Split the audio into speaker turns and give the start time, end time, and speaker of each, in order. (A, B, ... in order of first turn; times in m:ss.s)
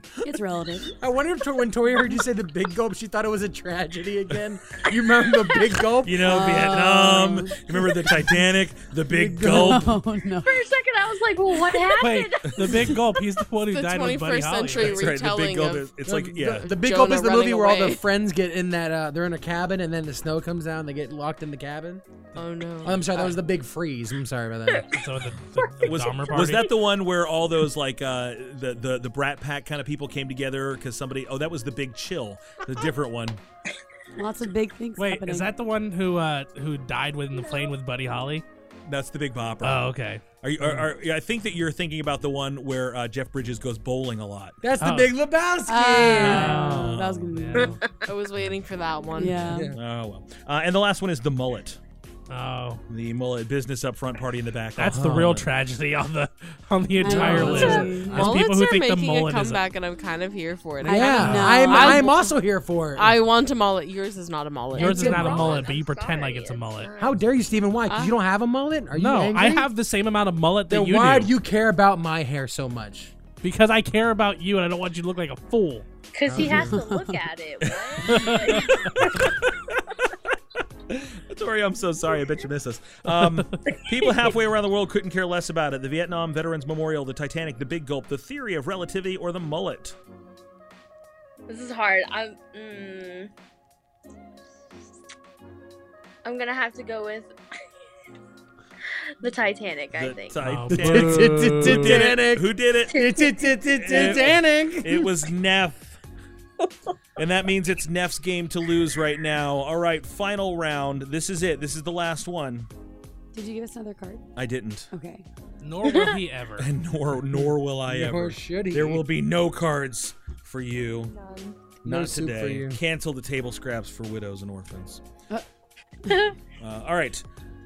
0:00.2-0:00.9 A
0:00.9-0:06.4 B
0:06.0-0:09.9 C
0:06.2-0:07.5 A
0:09.1-0:10.0 B
0:09.4-0:10.7 A
0:10.4-0:13.0 D
0:12.0-0:15.1 E
0:13.7-0:15.9 F
0:14.8-0:16.7 C
0:16.0-0:22.0 B
0:16.4-0:18.0 F
0:22.3-0:23.3 F
0:22.8-0:24.9 B
0:24.9-0:26.7 E
0:25.8-0:33.4 C
0:34.2-0:35.5 A
0:35.0-0:38.4 E
0:38.8-0:44.6 C
0:39.6-0:40.7 E
0:44.6-0:46.6 B
0:44.8-0:45.2 E
0:45.7-0:47.8 A
0:46.2-0:47.8 E
0:46.6-0:47.5 C
0:48.0-0:49.4 F
0:49.2-0:49.7 A
0:49.4-0:49.8 B
0:49.7-0:51.8 C
0:52.3-0:52.8 E
0:52.9-0:55.4 C
0:54.8-0:59.6 E
0:54.9-0:55.4 B
0:57.0-0:58.2 A
0:57.0-0:58.3 B
0:57.4-1:02.2 F
1:00.8-1:02.3 A
1:00.9-1:03.2 B
1:03.0-1:05.6 F
1:04.8-1:06.9 E
1:04.8-1:07.2 D
1:05.0-1:05.4 B
1:07.0-1:09.7 B
1:07.9-1:08.2 F
1:08.9-1:11.3 E
1:10.7-1:13.1 B
1:13.4-1:15.9 E
1:16.1-1:18.9 D
1:16.3-1:16.8 B
1:16.6-1:17.2 A
1:17.6-1:19.6 C
1:18.0-1:18.7 E
1:20.9-1:30.0 C
1:23.2-1:23.5 E
1:23.7-1:24.1 D
1:31.5-1:33.3 D
1:36.2-1:37.3 D
1:39.2-1:40.4 D
1:39.9-1:43.0 C
1:40.4-1:42.1 E
1:40.7-1:45.1 B
1:42.9-1:44.2 D
1:43.8-1:46.0 C
1:47.2-1:52.7 C
1:53.3-1:54.2 A
1:54.4-1:54.9 C
1:54.9-1:55.2 A
1:55.6-1:56.7 E
1:55.8-1:56.2 D
1:56.6-2:01.1 C
1:57.3-1:59.0 B
2:01.0-2:01.6 D
2:01.8-2:02.8 B
2:01.8-2:05.0 C
2:06.6-2:07.2 C